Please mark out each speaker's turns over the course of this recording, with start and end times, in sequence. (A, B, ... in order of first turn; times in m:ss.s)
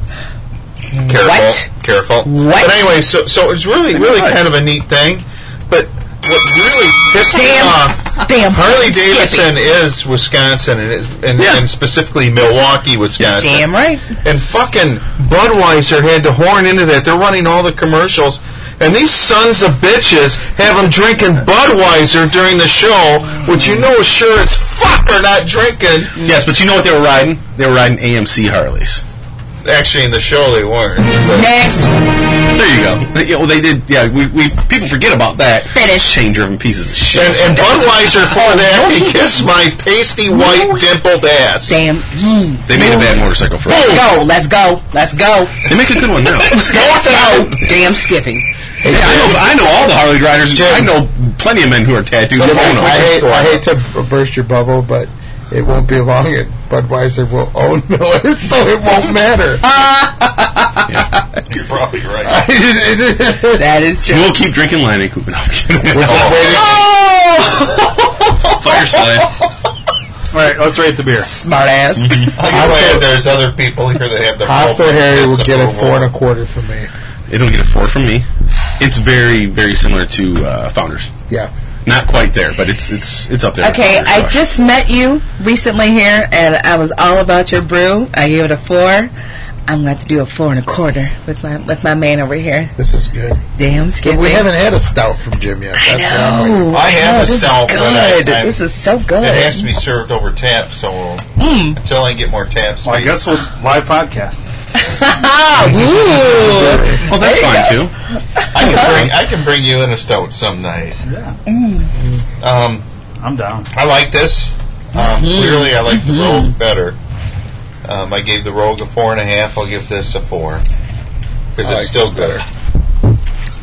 0:00.9-0:01.7 A
0:01.0-0:13.7 B
0:02.2-0:02.8 A
0:03.9-0:04.4 C
0:07.3-0:09.5 A
0:11.4-0:11.6 C
0:13.2-0:14.1 A
0:14.2-0:26.1 B
0:23.4-0:23.8 A
0:26.2-0:29.0 C
0:29.6-0:31.5 B
0:31.2-0:31.9 A
0:32.5-0:37.8 C
0:35.7-0:36.2 A
0:37.1-0:41.8 B
0:37.5-0:39.5 A
0:40.3-0:40.9 A
0:41.7-0:45.7 A
0:42.7-0:44.1 C
0:43.7-0:44.0 B
0:45.7-0:47.9 C
0:46.4-0:48.5 A
0:48.8-0:49.4 D
0:48.9-0:53.0 C
0:50.6-0:50.8 B
0:52.4-0:53.6 B
0:52.4-0:59.6 D
0:59.6-1:00.8 A
1:01.5-1:02.4 B
1:02.2-1:03.6 D
1:03.6-1:04.4 A
1:04.1-1:06.6 C
1:05.9-1:06.8 D
1:06.0-1:06.8 B
1:06.3-1:09.1 A
1:08.5-1:09.3 C
1:10.3-1:11.3 E
1:11.2-1:12.8 A
1:12.0-1:12.3 C
1:12.3-1:16.1 B
1:12.5-1:13.0 D
1:14.5-1:16.9 D
1:17.3-1:18.3 C
1:18.8-1:21.1 C
1:21.8-1:24.4 C
1:23.6-1:29.1 A
1:29.7-1:32.7 A
1:32.8-1:33.4 D
1:33.6-1:34.5 A
1:34.0-1:36.8 D
1:35.8-1:39.7 A
1:36.7-1:38.6 B
1:39.2-1:43.3 B
1:41.4-1:41.8 A
1:42.8-1:44.4 E
1:44.8-1:49.0 A
1:45.7-1:47.0 D
1:47.1-1:47.9 C
1:48.5-1:51.0 B
1:48.6-1:49.1 C
1:51.1-1:51.4 E
1:51.5-1:51.9 A
1:52.0-1:52.2 D
1:52.4-1:52.9 B
1:53.2-1:53.7 E
1:53.7-1:57.0 B
1:55.0-1:56.5 A
1:57.8-2:00.6 B
2:01.5-2:02.4 B
2:01.6-2:02.4 D